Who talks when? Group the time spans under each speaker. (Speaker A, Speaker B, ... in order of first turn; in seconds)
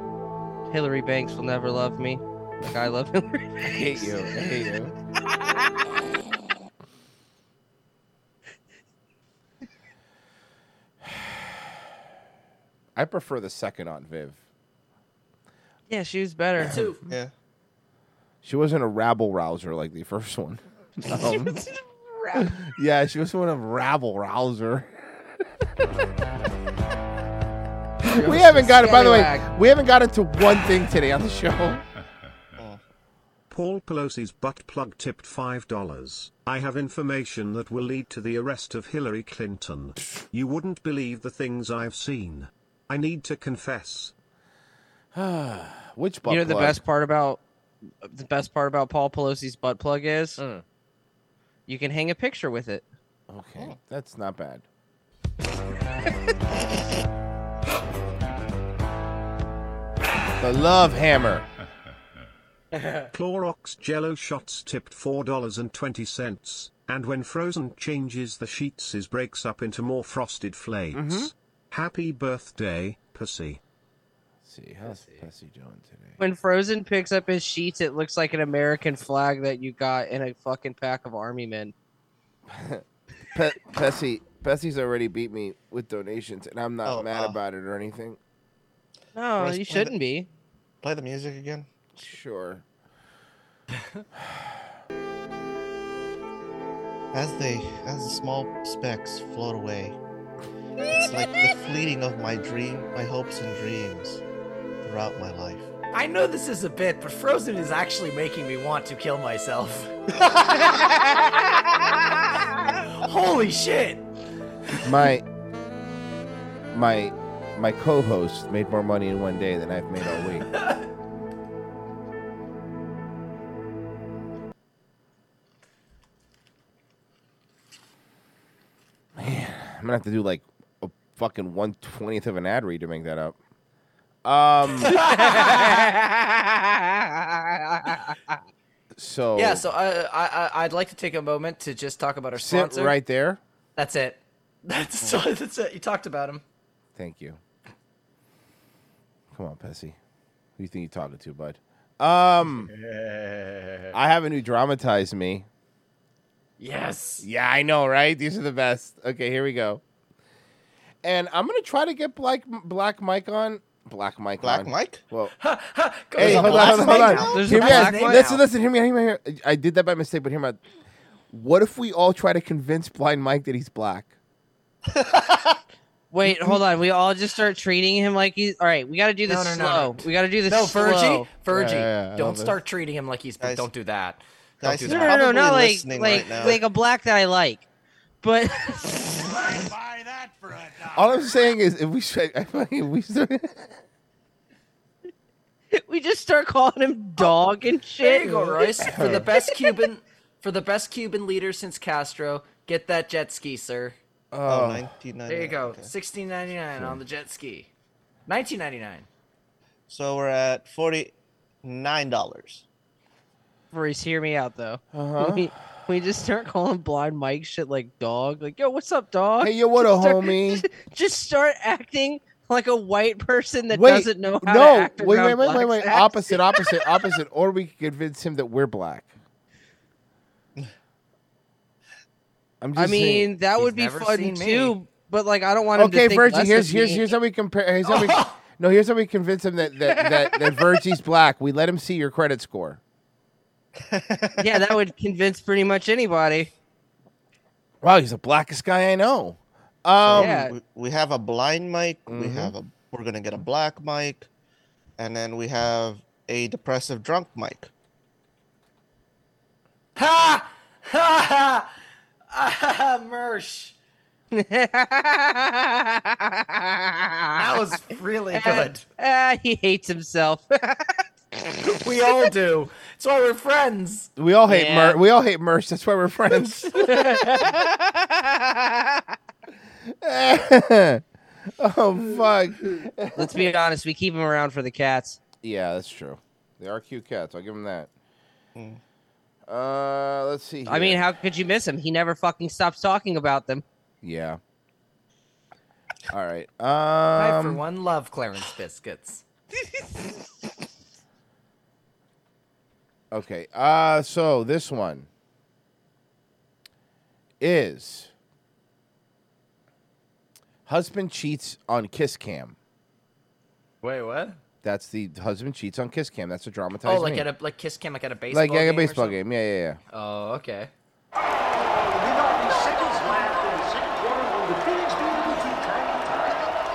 Speaker A: 0.7-3.7, 15.9-16.8, 28.1-29.5, 46.3-47.4, 48.0-50.4, 51.7-52.8, 76.2-81.7, 89.1-90.3, 135.1-138.2, 166.9-168.3, 176.1-181.3, 184.8-187.6, 188.2-189.5, 195.7-198.9, 213.7-226.8, 232.8-237.0, 244.4-246.5, 250.1-250.5, 264.3-267.6, 268.3-271.0, 274.5-275.0, 276.7-279.0, 283.1-285.2, 290.6-293.6
Speaker B: 3.6-4.9, 12.9-14.4, 16.6-16.8, 18.4-21.6, 22.4-25.4, 28.1-31.8, 45.1-46.8, 50.4-50.6, 53.3-54.6, 60.4-61.5, 70.9-71.3, 74.4-76.2, 82.5-88.2, 92.0-92.6, 94.2-94.5, 114.8-115.2, 116.7-120.5, 129.1-133.4, 134.2-135.0, 138.9-139.7, 142.3-143.4, 146.9-147.4, 149.3-150.0, 150.6-152.7, 153.9-155.5, 157.2-159.8, 161.0-165.3, 166.2-170.6, 171.3-174.1, 181.5-182.6, 190.8-193.8, 198.8-199.3, 204.3-204.9, 214.9-215.5, 219.4-220.7, 223.7-229.1, 232.6-233.3, 235.7-242.8, 247.8-250.4, 252.1-252.5, 274.2-277.5, 279.9-281.0, 281.6-283.5, 285.4-287.9, 289.5-291.0, 294.0-294.4, 296.1-297.6, 303.1-305.1, 307.4-308.1, 310.6-312.6, 314.6-317.3, 318.3-319.8
Speaker C: 16.6-17.0, 62.8-63.0, 74.8-75.3, 105.9-109.9, 112.8-114.0, 134.8-135.9, 139.3-142.9, 143.8-146.4, 152.8-153.9, 156.6-157.3, 165.4-168.4, 179.2-185.2, 198.0-204.0, 205.2-207.7, 208.3-209.1, 233.6-234.8, 237.8-238.4, 259.9-261.7, 262.3-263.7, 267.4-268.8, 271.6-274.1, 297.1-299.2, 313.8-314.4, 316.8-319.2, 319.9-320.7
Speaker D: 33.5-44.1, 63.1-73.6
Speaker E: 86.8-87.4, 89.4-89.9, 90.8-91.7, 97.1-100.0, 100.9-104.2, 104.8-105.7, 164.4-165.0, 166.2-167.4, 174.9-175.5, 183.4-183.7, 184.6-186.6, 204.4-205.9, 209.9-211.1, 211.6-212.6, 243.8-244.5, 250.0-254.3, 255.0-257.7, 288.5-288.8
Speaker F: 190.0-190.6, 321.5-326.5